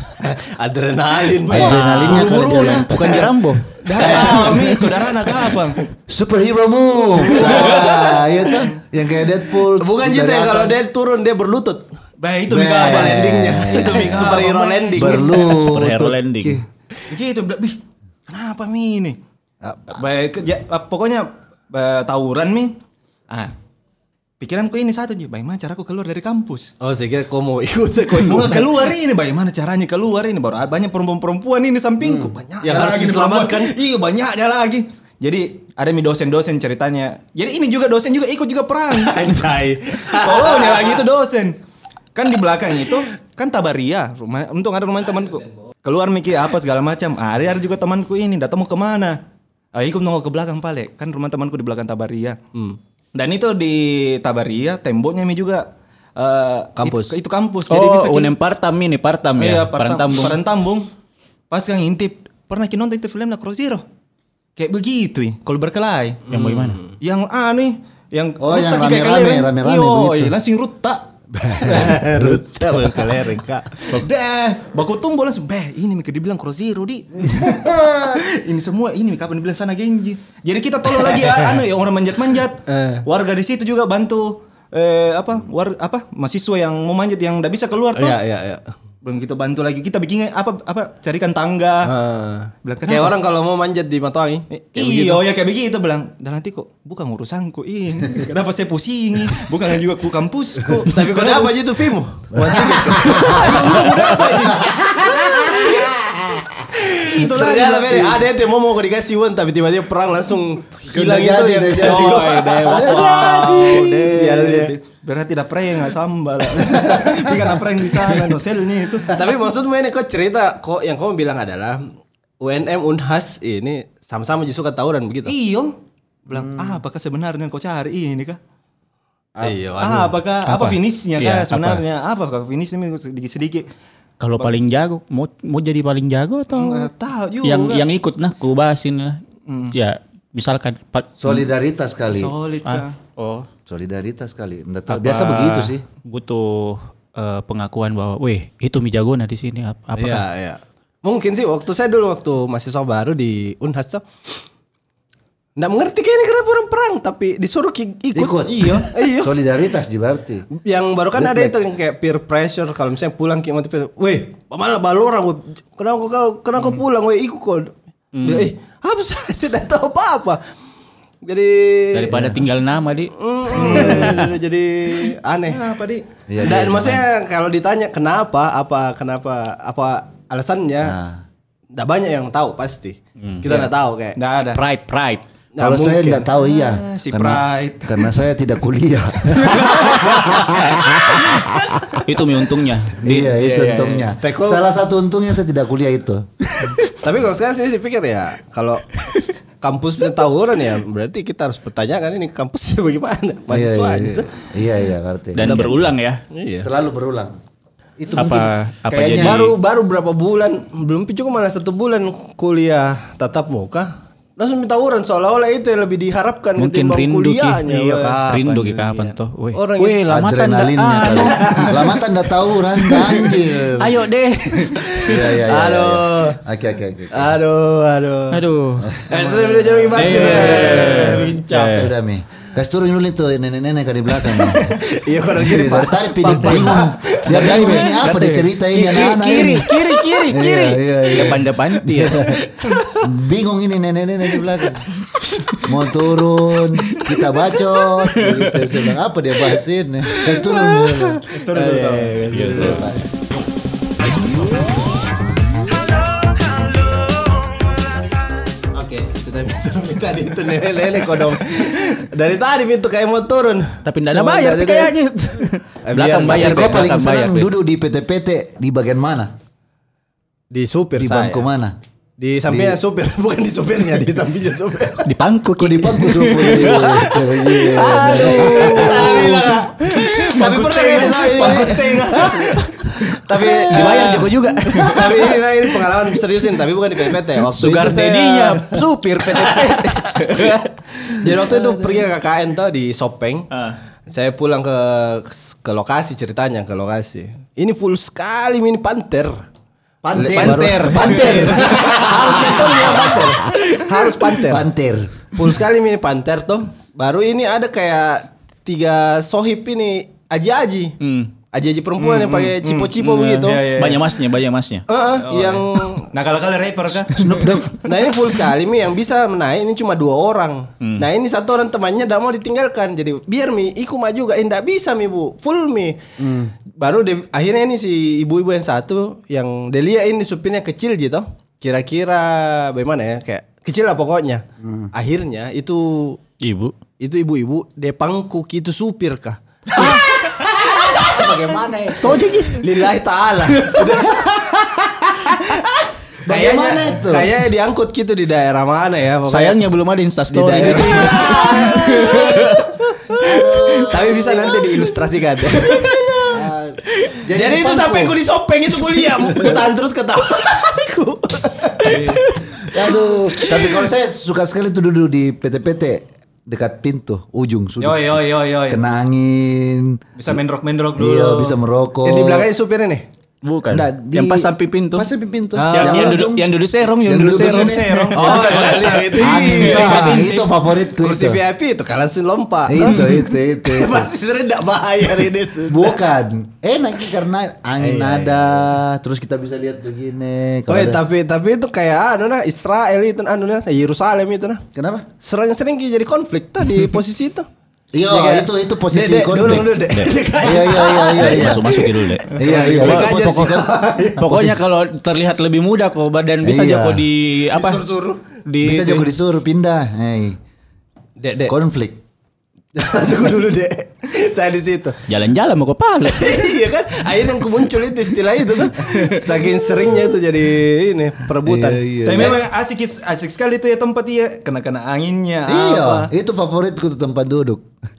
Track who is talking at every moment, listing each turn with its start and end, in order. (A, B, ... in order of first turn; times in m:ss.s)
0:00.2-0:02.2 A
0:01.5-0:03.2 B
0:01.5-0:03.3 C
0:02.0-0:03.9 D
0:03.8-0:05.8 B
0:03.9-0:05.0 A
0:04.0-0:04.8 C
0:06.1-0:10.8 C
0:07.3-0:08.5 A
0:07.3-0:08.7 B
0:09.6-0:11.9 A
0:12.2-0:15.4 B
0:12.5-0:14.4 C
0:12.9-0:15.6 A
0:14.9-0:16.6 C
0:15.6-0:16.6 D
0:17.1-0:19.2 B
0:19.6-0:20.0 C
0:19.9-0:22.8 B
0:24.4-0:26.7 B
0:26.8-0:28.9 A
0:28.1-0:41.6 B
0:32.0-0:32.3 C
0:32.5-0:33.8 A
0:38.9-0:41.0 A
0:42.1-0:49.2 B
0:49.7-0:52.4 B
0:53.2-0:58.4 B
0:56.8-0:57.2 A
0:57.7-1:00.4 D
0:59.4-1:00.9 B
1:01.5-1:03.8 B
1:04.6-1:06.3 B
1:06.3-1:07.0 A
1:06.3-1:06.8 D
1:07.0-1:11.1 B
1:08.4-1:10.4 C
1:11.4-1:12.4 C
1:11.6-1:14.0 A
1:11.6-1:12.0 B
1:13.9-1:28.2 B
1:17.2-1:18.2 C
1:20.9-1:21.6 A
1:22.7-1:23.0 A
1:28.0-1:28.7 A
1:29.0-1:31.9 B
1:31.8-1:35.3 A
1:32.6-1:33.2 B
1:34.5-1:41.5 B
1:40.9-1:44.3 A
1:42.3-1:46.5 C
1:42.4-1:45.9 B
1:45.1-1:45.6 A
1:46.8-1:54.8 A
1:46.9-1:48.3 B
1:50.9-1:54.1 C
1:51.8-1:59.2 B
1:56.6-1:57.5 C
1:59.1-2:05.3 A
2:05.3-2:08.4 B
2:06.3-2:06.8 C
2:09.4-2:10.2 A
2:09.8-2:13.7 B
2:10.4-2:11.8 D
2:14.2-2:16.9 D
2:16.5-2:17.9 B
2:17.4-2:21.4 D
2:19.5-2:19.8 B
2:21.2-2:22.3 C
2:22.1-2:23.0 B
2:22.6-2:23.5 D
2:23.7-2:25.8 C
2:24.9-2:30.2 D
2:30.0-2:34.0 A
2:35.6-2:39.3 A
2:38.1-2:40.5 C
2:40.6-2:50.4 A
2:41.1-2:41.6 C
2:48.1-2:48.5 D
2:51.2-2:52.2 A
2:51.9-2:54.3 D
2:52.1-2:52.4 C
2:53.2-2:55.6 A
2:53.5-2:54.3 B
2:55.5-2:56.1 B
2:56.3-2:57.0 C
2:56.4-3:01.0 A
3:00.8-3:01.2 C
3:01.7-3:04.2 A
3:03.2-3:03.5 D
3:03.5-3:04.6 B
3:04.5-3:05.2 D
3:05.6-3:06.3 A
3:05.6-3:12.0 C
3:06.4-3:08.1 B
3:09.4-3:10.6 B
3:12.0-3:13.3 D
3:13.0-3:16.3 C
3:13.2-3:14.1 B
3:14.2-3:14.6 A
3:16.9-3:24.5 A
3:23.5-3:25.8 C
3:25.4-3:26.2 D
3:25.4-3:25.8 A
3:26.3-3:26.7 A
3:26.6-3:27.4 C
3:28.0-3:29.5 C
3:28.2-3:29.6 D
3:29.1-3:38.2 A
3:36.6-3:37.7 D
3:37.6-3:39.2 B
3:38.2-3:41.8 D
3:39.5-3:40.0 A
3:40.1-3:44.0 C
3:41.2-3:41.9 A
3:42.8-3:45.1 D
3:44.8-3:46.4 A
3:45.0-3:47.4 C
3:47.1-3:48.4 A
3:48.3-3:49.0 D
3:48.8-3:54.7 C
3:49.1-3:51.4 A
3:49.8-3:51.4 B
3:50.0-3:51.9 D
3:54.3-3:57.8 A
3:55.4-3:59.7 C
3:56.3-4:02.3 D
4:00.3-4:04.9 C
4:05.3-4:05.5 D
4:05.6-4:11.2 C
4:08.2-4:08.5 D
4:10.2-4:13.0 A
4:11.2-4:12.8 B
4:12.3-4:12.8 D
4:12.4-4:13.0 C
4:16.9-4:17.5 A
4:18.6-4:24.9 A
4:23.8-4:27.5 D
4:25.8-4:26.8 A
4:26.3-4:29.4 C
4:30.5-4:31.5 A
4:31.0-4:31.8 C
4:32.2-4:35.1 A
4:32.5-4:32.8 C
4:35.0-4:37.2 D
4:35.6-4:39.4 C
4:36.5-4:53.5 A
4:38.1-4:39.5 D
4:38.7-4:42.8 B
4:40.4-4:41.7 D
4:41.1-4:41.8 C
4:43.1-4:44.1 C
4:43.4-4:45.4 D
4:47.4-4:50.6 D
4:47.6-4:48.0 C
4:49.4-4:50.4 B
4:51.3-4:51.6 C
4:53.5-4:53.8 D
4:54.1-4:59.4 A
5:00.0-5:05.4 C
5:00.2-5:03.2 D
5:00.2-5:04.7 A
5:05.3-5:11.0 A
5:11.0-5:11.3 D
5:11.5-5:13.7 A
5:12.0-5:14.1 B
5:13.0-5:14.9 D
5:14.9-5:16.1 A
5:15.1-5:17.7 B
5:17.2-5:17.8 C
5:17.8-5:26.0 A
5:20.8-5:21.1 D
5:26.2-5:26.5 C
5:26.7-5:36.2 A
5:34.6-5:34.9 C
5:36.4-5:36.8 D
5:37.0-5:44.0 A
5:39.8-5:40.0 D
5:39.8-5:42.2 C
5:42.0-5:42.8 D
5:43.7-5:45.3 C
5:45.3-5:45.6 A
5:46.2-5:47.4 C
5:46.3-5:49.7 A
5:49.3-5:52.7 D
5:50.3-5:56.4 A
5:53.1-5:54.8 C
5:56.3-5:58.2 C
5:57.1-6:03.9 A
5:59.2-5:59.6 C
6:01.8-6:02.2 B
6:02.6-6:10.4 C
6:07.8-6:08.8 B
6:10.2-6:11.6 B
6:11.0-6:12.5 C
6:12.0-6:13.1 A
6:13.4-6:15.1 D
6:13.7-6:18.1 C
6:15.6-6:16.3 A
6:15.7-6:18.9 D
6:17.4-6:20.5 B
6:18.2-6:20.3 A
6:19.1-6:21.4 C
6:21.0-6:26.0 A
6:22.7-6:24.1 C
6:25.7-6:31.0 C
6:27.8-6:28.7 A
6:30.7-6:34.6 A
6:34.8-6:35.1 C
6:35.2-6:37.5 A
6:37.9-6:39.8 C
6:38.1-6:44.2 A
6:39.9-6:40.2 D
6:40.4-6:41.8 C
6:40.8-6:43.6 D
6:42.4-6:44.6 C
6:44.2-6:47.8 D
6:46.4-6:47.1 C
6:47.5-6:48.2 A
6:48.4-6:49.1 D
6:48.6-6:50.4 C
6:51.2-6:51.6 A
6:51.5-6:52.0 C
6:52.8-6:55.0 A
6:55.1-6:56.5 D
6:56.0-7:02.4 A
6:58.8-6:59.3 B
7:01.4-7:02.4 C
7:02.0-7:06.1 B
7:05.4-7:07.7 C